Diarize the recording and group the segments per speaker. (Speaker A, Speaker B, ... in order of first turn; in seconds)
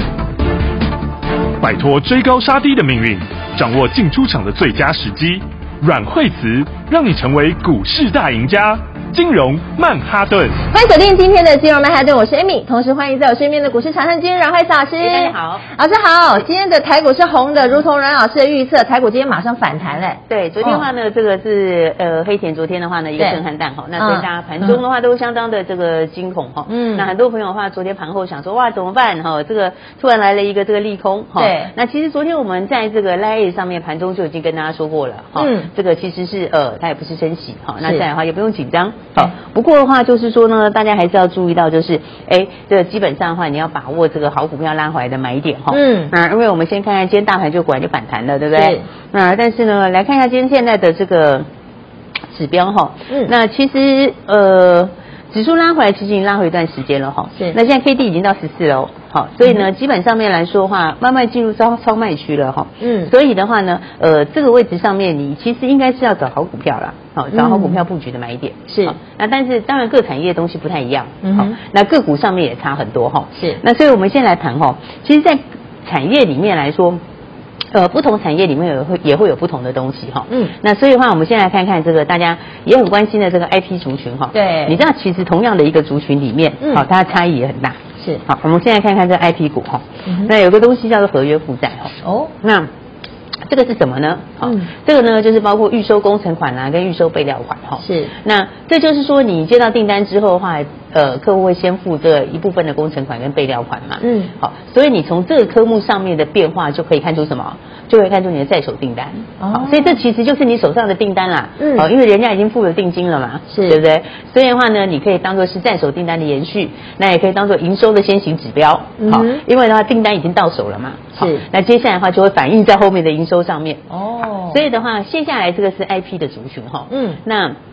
Speaker A: 1.6-10.6
Speaker B: 10.7-20.8, 24.0-24.8, 26.7-27.1, 31.4-31.7, 35.4-35.7, 45.7-46.1, 48.5-48.9, 62.8-63.1, 67.3-67.8, 68.7-69.0, 71.2-71.6, 73.4-73.6, 84.3-84.8, 90.1-90.3, 92.0-92.3, 94.4-94.7, 97.8-98.1, 104.0-104.3, 109.4-110.0, 111.6-111.9, 113.5-113.8, 119.0-119.4, 121.2-121.5, 123.9-124.6, 126.9-127.2
Speaker C: 15.0-15.7, 20.3-51.5, 52.3-77.0, 77.7-92.7, 93.5-123.8, 124.4-127.6